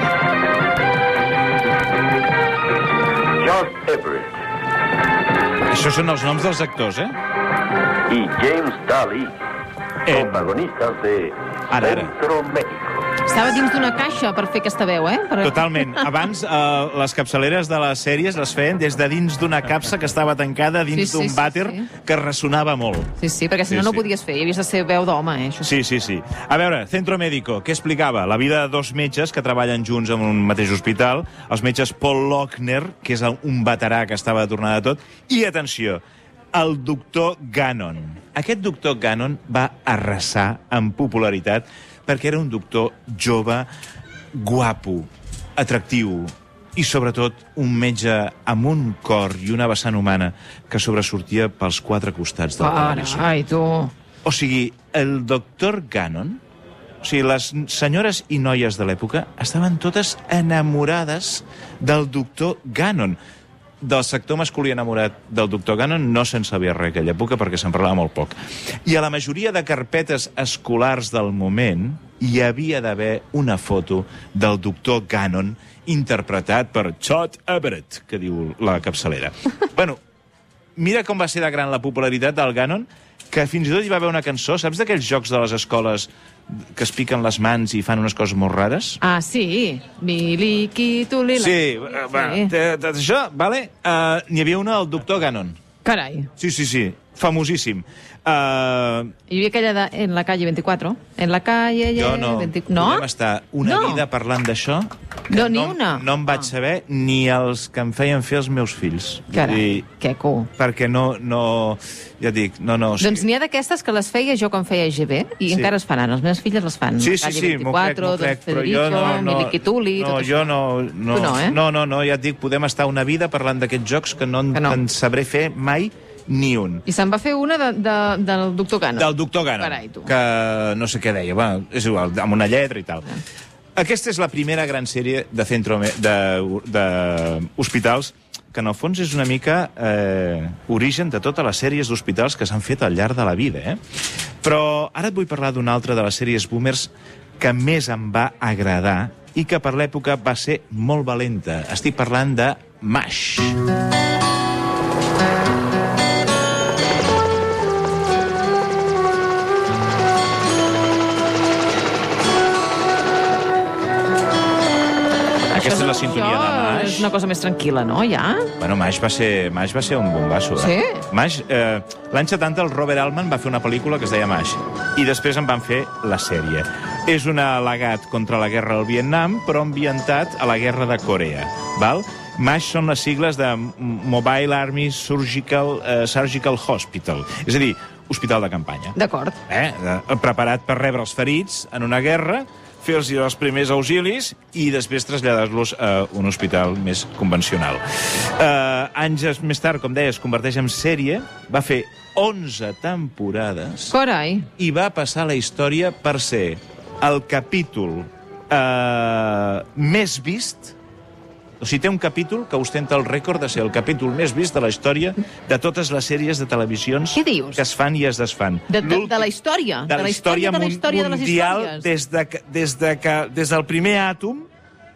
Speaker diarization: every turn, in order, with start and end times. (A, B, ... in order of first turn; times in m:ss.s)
0:03.4-0:04.3 A
0:05.7-0:07.2 B
0:08.1-0:09.3 A
0:10.1-0:10.5 B
0:10.1-0:13.0 A
0:11.7-0:12.1 B
0:13.2-0:16.1 C
0:15.4-0:23.1 B
0:20.9-0:21.9 C
0:23.2-0:25.7 C
0:23.7-0:24.0 B
0:25.6-0:36.0 B
0:36.5-0:43.7 B
0:44.3-0:53.3 B
0:52.6-0:53.9 C
0:54.2-0:56.4 B
0:57.0-1:03.2 B
1:03.8-1:20.0 B
1:20.8-1:29.0 B
1:29.0-1:32.5 C
1:31.3-1:35.6 B
1:35.8-1:36.3 C
1:36.4-1:39.1 B
1:39.3-1:43.0 C
1:41.9-1:49.8 B
1:43.6-1:44.0 C
1:45.3-1:46.4 C
1:49.3-1:50.5 C
1:50.6-1:53.3 B
1:53.0-2:00.5 C
1:57.0-2:06.8 B
2:01.1-2:01.6 C
2:04.5-2:04.8 C
2:06.8-2:10.1 C
2:09.0-2:13.0 B
2:13.8-2:23.8 B
2:24.4-2:33.6 B
2:45.5-2:47.1 B
2:45.5-2:48.5 C
2:48.6-3:09.0 B
2:50.6-2:51.0 C
3:09.0-3:09.4 C
3:09.5-3:24.0 B
3:23.9-3:24.5 C
3:24.6-3:30.8 B
3:31.6-3:39.3 B
3:37.1-3:37.6 C
3:38.7-3:41.9 C
3:39.9-3:44.5 B